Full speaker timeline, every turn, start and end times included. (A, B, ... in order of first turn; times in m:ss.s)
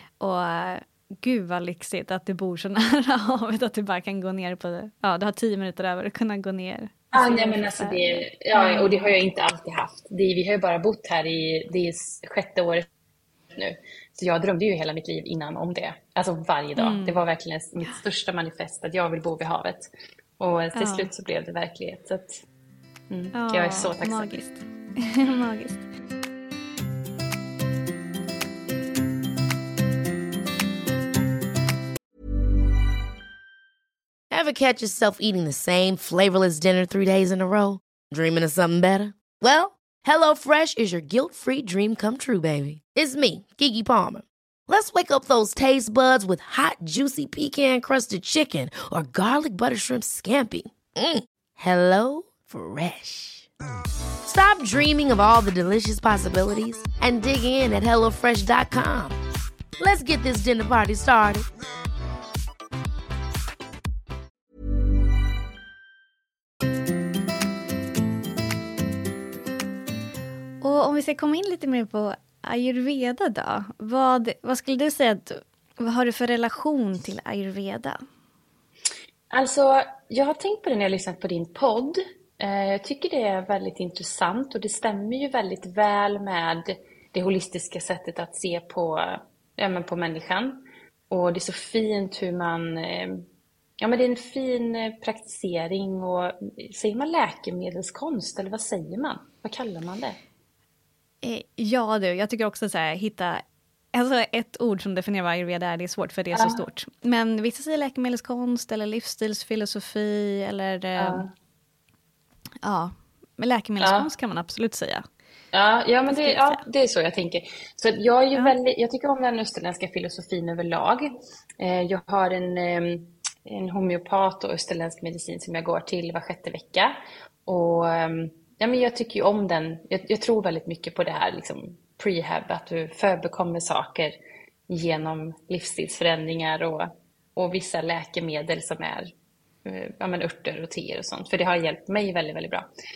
0:00.2-0:09.1 A
0:07.1-0:12.8 B
0:13.5-0:22.4 B
0:16.8-0:17.2 A
0:20.7-0:21.1 A
0:23.1-0:24.4 B
0:23.3-0:25.8 A
0:34.3-0:53.5 C
0:54.2-0:59.2 C
0:59.8-1:01.5 C
1:10.6-1:18.0 A
1:19.3-1:30.6 B
1:31.1-1:33.2 B
1:33.8-1:40.2 B
1:41.2-1:43.4 A
1:43.9-1:51.2 A
1:46.3-1:46.6 B
1:51.0-1:51.3 B
1:52.6-1:55.0 A
1:53.8-1:54.1 B
1:55.5-2:01.1 B
1:56.1-1:56.6 A
2:01.6-2:06.9 B
2:07.4-2:14.1 B
2:14.7-2:19.1 B
2:19.6-2:22.6 B